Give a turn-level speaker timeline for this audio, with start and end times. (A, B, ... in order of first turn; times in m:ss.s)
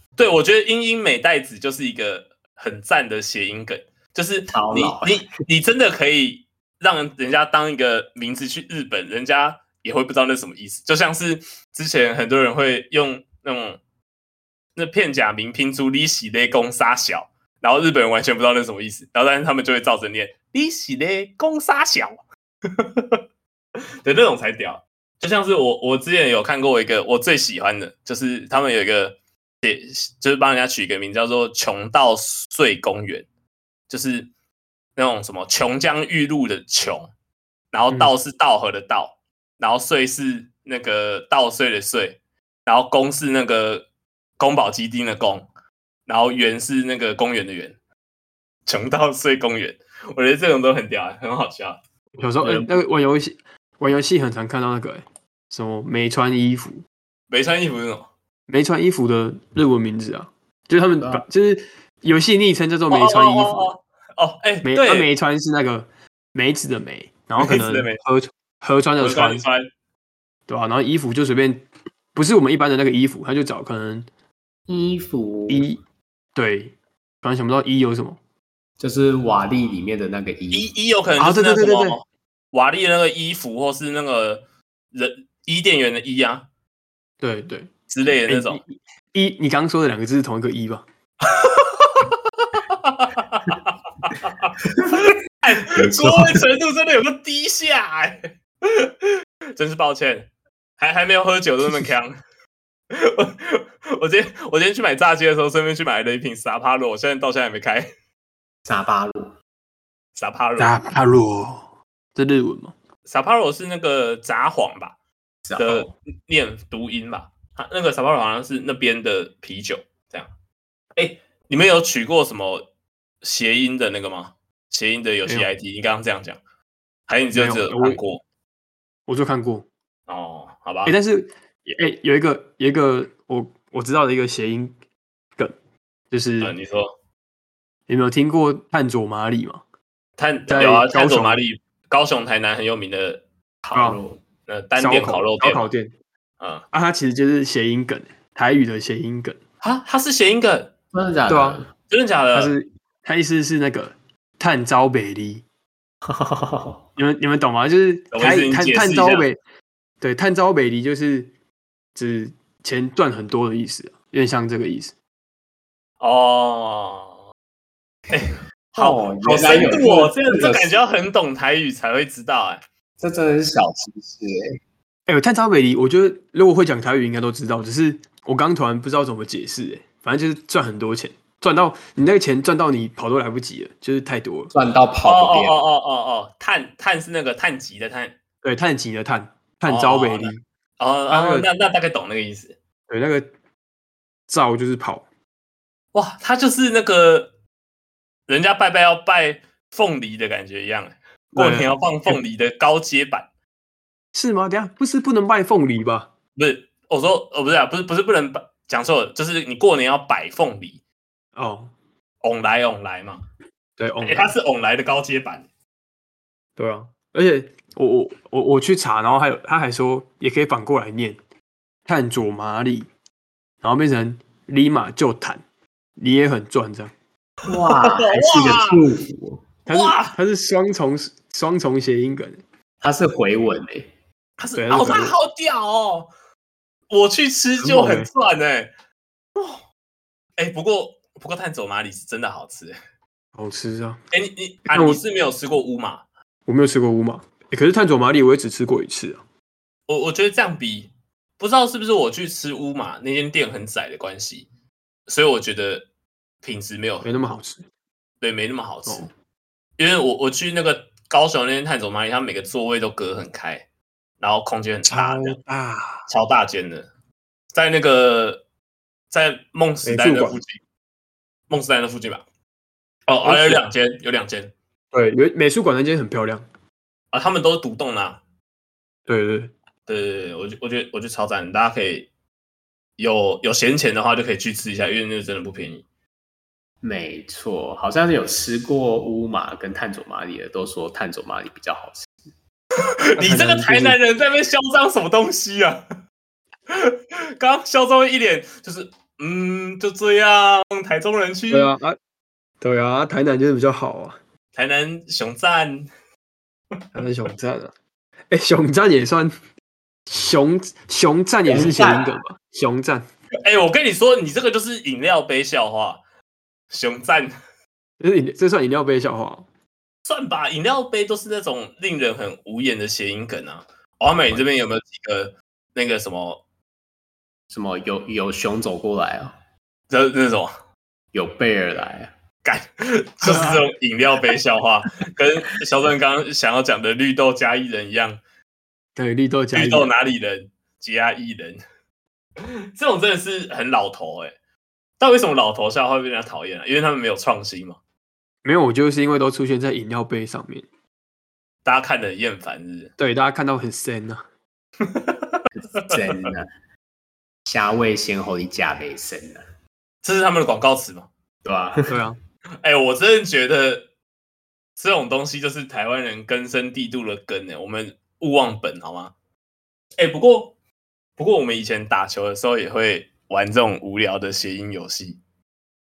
0:00.2-0:13.8 A
0:04.5-0:05.2 B
0:14.8-0:22.2 A
0:22.7-0:23.2 A
0:24.0-0:33.2 A
0:33.9-0:34.3 A
0:35.0-0:37.1 A
0:37.7-0:43.8 A
0:44.4-0:45.4 A
0:46.1-0:47.8 A
0:48.6-0:51.8 A
0:52.2-0:56.8 C
0:52.4-0:52.7 A
0:57.3-0:58.1 A
0:58.5-1:03.7 C
1:02.9-1:05.1 A
1:04.6-1:09.4 C
1:07.4-1:08.0 A
1:09.0-1:09.7 A
1:10.5-1:14.1 C
1:14.7-1:15.6 B
1:15.5-1:15.8 C
1:16.3-1:18.2 C
1:18.8-1:20.7 B
1:20.5-1:24.4 A
1:21.2-1:22.0 C
1:24.9-1:26.4 A
1:27.2-1:27.7 C
1:27.9-1:28.6 A
1:28.3-1:30.8 C
1:31.2-1:42.1 A
1:34.8-1:35.1 B
1:35.6-1:36.4 B
1:42.9-1:47.9 A
1:48.6-1:49.3 B
1:50.2-1:50.8 A
1:50.6-1:52.7 C
1:53.1-1:54.9 A
1:55.4-1:55.9 B
1:55.6-2:00.3 A
2:01.0-2:02.6 A
2:03.2-2:06.4 A
2:07.1-2:08.2 A
2:07.3-2:08.0 C
2:09.1-2:09.6 C
2:10.1-2:10.9 A
2:10.8-2:14.7 C
2:16.1-2:16.5 C
2:16.4-2:16.9 A
2:17.9-2:19.6 C
2:20.2-2:25.7 A
2:20.5-2:21.4 C
2:23.7-2:24.0 C
2:24.8-2:25.9 C
2:26.7-2:29.4 C
2:29.6-2:30.7 A
2:30.9-2:31.7 B
2:31.3-2:31.6 C
2:31.9-2:32.5 A
2:32.3-2:35.4 C
2:36.0-2:36.8 B
2:37.0-2:39.4 C
2:38.1-2:39.2 A
2:40.0-2:41.3 C
2:41.9-2:44.9 C
2:46.0-2:47.2 A
2:48.1-2:52.6 A
2:48.7-2:50.7 B
2:53.0-2:54.4 B
2:55.1-3:04.5 C
3:04.5-3:05.6 B
3:05.0-3:08.1 A
3:08.4-3:10.4 C
3:09.7-3:12.5 A
3:11.1-3:11.5 C
3:12.9-3:13.2 C
3:14.3-3:15.0 C
3:15.9-3:17.3 A
3:18.3-3:23.3 A
3:21.3-3:22.2 C
3:24.1-3:26.1 C
3:26.4-3:30.8 A
3:31.4-3:31.7 C
3:32.2-3:33.2 A
3:33.8-3:34.3 C
3:34.0-3:35.4 A
3:36.6-3:41.2 C
3:41.8-3:42.9 C
3:43.6-3:45.4 C
3:46.0-3:46.9 C
3:47.4-3:49.5 B
3:47.5-3:48.8 A
3:49.7-3:52.4 C
3:49.7-3:50.2 A
3:52.8-3:53.9 B
3:54.4-3:56.1 A
3:54.6-3:55.2 C
3:56.9-3:58.7 A
3:57.6-3:58.1 C
4:00.4-4:02.8 A
4:03.4-4:04.0 C
4:04.1-4:06.0 A
4:04.7-4:05.0 C
4:06.5-4:09.2 C
4:09.9-4:14.5 A
4:15.1-4:15.8 A
4:16.4-4:17.1 A
4:17.0-4:17.6 C
4:18.2-4:19.1 A
4:19.8-4:23.6 A
4:24.2-4:25.4 A
4:24.9-4:26.0 C
4:26.1-4:26.9 A
4:27.5-4:28.4 A
4:29.1-4:30.6 A
4:29.8-4:30.4 C
4:31.5-4:32.2 A
4:33.1-4:34.5 A
4:33.2-4:33.6 C
4:34.9-4:36.4 C
4:37.1-4:38.2 A
4:39.1-4:39.5 C
4:39.9-4:42.1 A
4:43.0-4:45.8 A
4:46.8-4:52.1 B
4:53.2-4:55.8 A
4:53.2-4:54.0 C
4:56.7-5:01.7 A
5:01.5-5:02.0 C
5:02.6-5:04.2 C
5:04.5-5:05.9 A
5:06.9-5:07.7 C
5:08.3-5:09.3 C
5:10.1-5:13.0 C
5:11.5-5:12.2 B
5:13.4-5:16.0 A
5:16.7-5:17.3 A
5:18.0-5:19.4 C
5:20.0-5:26.4 A
5:27.5-5:29.3 B
5:29.9-5:30.5 A
5:31.1-5:32.1 B
5:32.4-5:38.2 A
5:33.2-5:33.6 C
5:39.0-5:39.9 C
5:39.5-5:41.6 A
5:42.4-5:44.3 A
5:45.0-5:47.8 A
5:48.4-5:50.6 C
5:51.6-5:52.9 A
5:53.0-5:54.2 C
5:54.8-5:56.3 A
5:55.7-5:56.5 B
5:57.4-5:59.4 B
6:00.0-6:01.1 A
6:01.4-6:01.9 B
6:01.9-6:02.2 C
6:02.6-6:03.8 A
6:04.8-6:09.1 A
6:10.0-6:10.5 A
6:11.2-6:15.2 A